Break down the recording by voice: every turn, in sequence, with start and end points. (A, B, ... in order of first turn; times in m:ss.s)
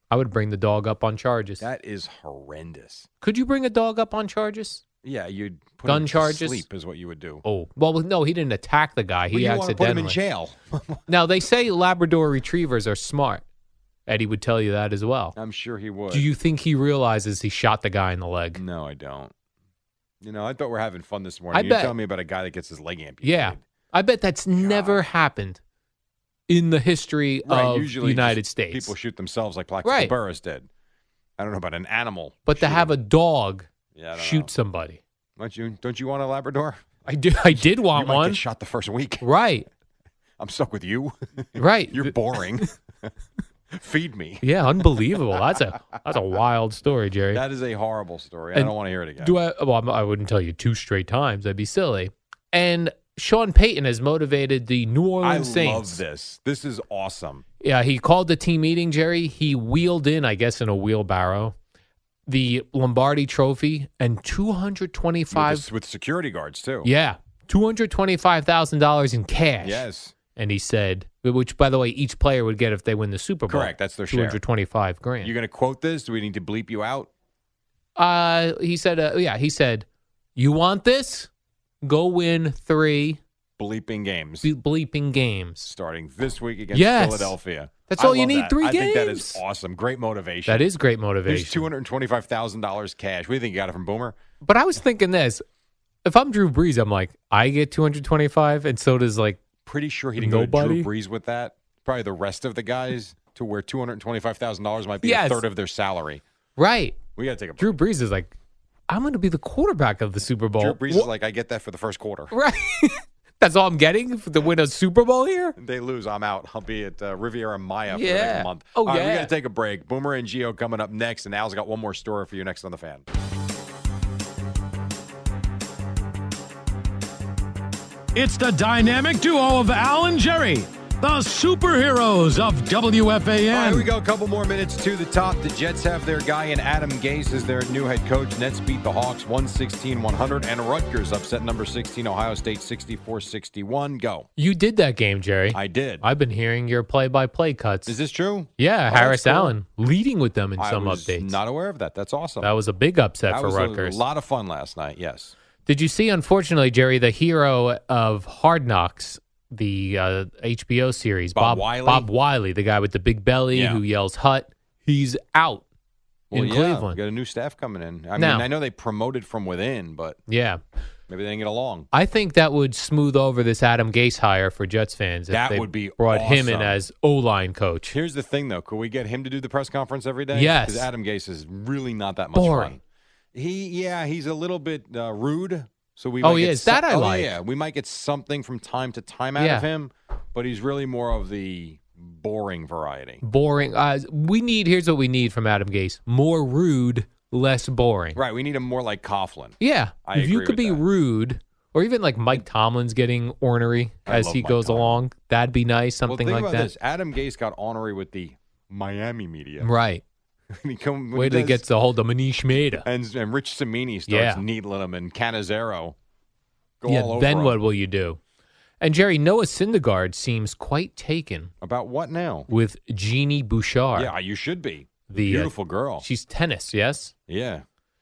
0:00.1-0:01.6 A
0:01.6-0:03.1 B
0:03.2-0:04.8 A
0:05.0-0:07.4 B
0:05.9-0:06.6 A
0:07.4-0:10.2 A
0:09.3-0:11.0 B
0:11.1-0:13.4 A
0:14.1-0:15.4 A
0:15.4-0:16.3 B
0:16.1-0:18.6 A
0:18.6-0:19.3 B
0:20.2-0:23.6 B
0:21.5-0:21.9 A
0:23.2-0:25.6 A
0:24.6-0:25.0 B
0:26.5-0:28.9 A
0:27.5-0:30.7 B
0:29.8-0:30.1 A
0:31.4-0:32.9 B
0:32.5-0:35.0 A
0:34.0-0:34.5 B
0:35.4-0:36.8 B
0:37.0-0:38.4 A
0:37.4-0:39.3 B
0:39.2-0:39.7 A
0:40.4-0:43.1 B
0:41.6-0:42.7 A
0:43.7-0:45.2 B
0:44.4-0:47.4 A
0:47.3-0:49.4 B
0:48.5-0:56.0 A
0:55.2-0:57.4 B
0:57.6-1:01.6 A
1:02.3-1:05.7 A
1:05.3-1:06.9 B
1:06.8-1:09.8 A
1:09.6-1:10.1 B
1:10.4-1:15.3 A
1:13.5-1:14.4 B
1:15.2-1:17.1 B
1:18.0-1:21.3 A
1:21.8-1:23.2 A
1:23.6-1:24.5 B
1:24.4-1:25.7 A
1:25.6-1:30.6 B
1:26.7-1:27.4 A
1:27.9-1:29.4 A
1:30.5-1:31.7 A
1:31.3-1:34.2 B
1:34.4-1:35.4 A
1:36.0-1:39.4 A
1:39.6-1:46.2 B
1:40.2-1:40.9 A
1:45.0-1:45.4 A
1:46.6-1:47.0 A
1:47.2-1:47.7 B
1:47.6-1:48.3 A
1:48.9-1:51.1 A
1:50.6-1:52.3 B
1:52.3-1:55.6 A
1:55.6-2:03.0 B
1:57.9-1:59.3 A
2:08.2-2:13.9 C
2:13.5-2:24.3 B
2:24.4-2:28.0 A
2:25.5-2:26.0 B
2:27.9-2:29.6 B
2:28.6-2:31.4 A
2:30.6-2:32.6 B
2:32.4-2:34.0 A
2:33.3-2:35.3 B
2:35.7-2:45.7 A
2:41.4-2:42.1 B
2:43.5-2:43.8 B
2:46.3-2:50.2 B
2:46.3-2:47.0 A
2:48.2-2:48.5 A
2:50.3-2:50.6 A
2:51.1-2:51.9 B
2:51.9-2:57.9 A
2:55.3-2:56.8 B
2:57.9-3:02.8 B
3:00.3-3:00.9 A
3:02.4-3:02.8 A
3:03.3-3:13.2 B
3:06.2-3:07.4 A
3:09.4-3:09.7 A
3:13.2-3:18.2 A
3:18.2-3:20.8 B
3:19.6-3:26.7 A
3:24.1-3:25.0 B
3:26.1-3:29.7 B
3:29.6-3:30.0 A
3:30.5-3:31.6 B
3:31.2-3:32.9 A
3:32.8-3:36.0 B
3:34.1-3:34.4 A
3:36.8-3:37.6 B
3:36.9-3:38.2 A
3:38.8-3:41.5 A
3:41.6-3:42.5 B
3:42.5-3:44.1 A
3:44.0-3:46.0 B
3:45.1-3:47.1 A
3:47.3-3:47.6 B